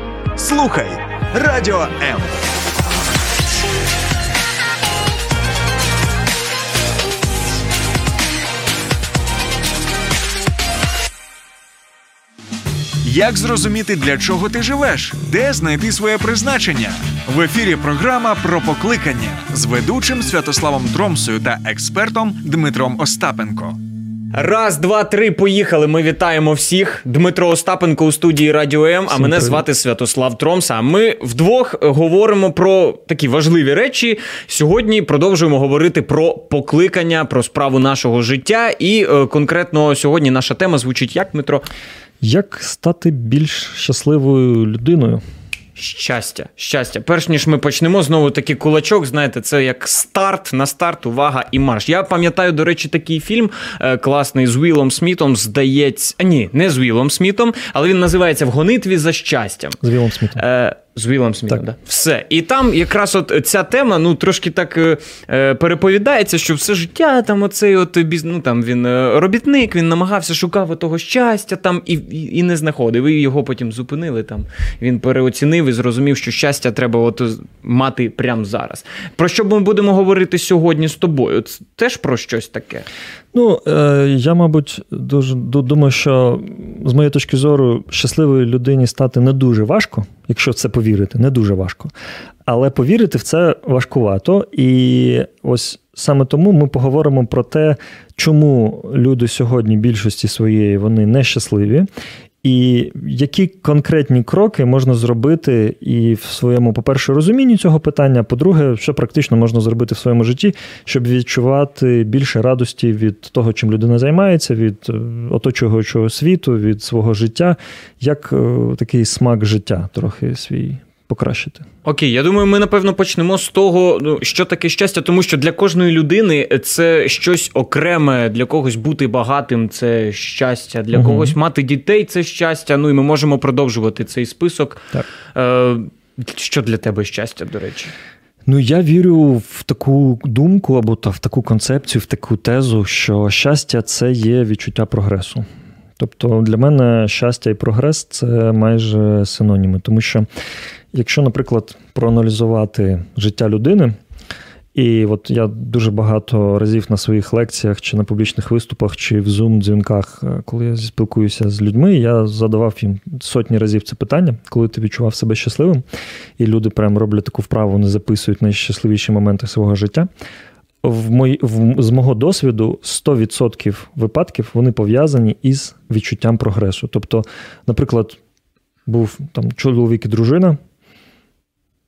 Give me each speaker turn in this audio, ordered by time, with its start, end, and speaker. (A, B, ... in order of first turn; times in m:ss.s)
0:00.3-0:02.4 A
0:13.0-0:23.8 A
0:24.3-0:41.6 B
0:29.1-0:29.6 C
0:42.2-0:45.2 C
0:45.8-0:59.8 B
0:59.8-1:00.4 C
1:00.4-1:22.8 B
1:23.3-1:31.9 C
1:32.4-1:41.9 C
1:42.4-2:01.6 C
2:01.8-2:17.9 B
2:10.9-2:11.4 C
2:18.4-2:25.4 C
2:26.0-2:30.2 C
2:30.9-2:34.0 C
2:34.7-2:45.8 C
2:46.4-2:50.1 C
2:50.8-2:58.2 C
2:58.8-3:00.6 C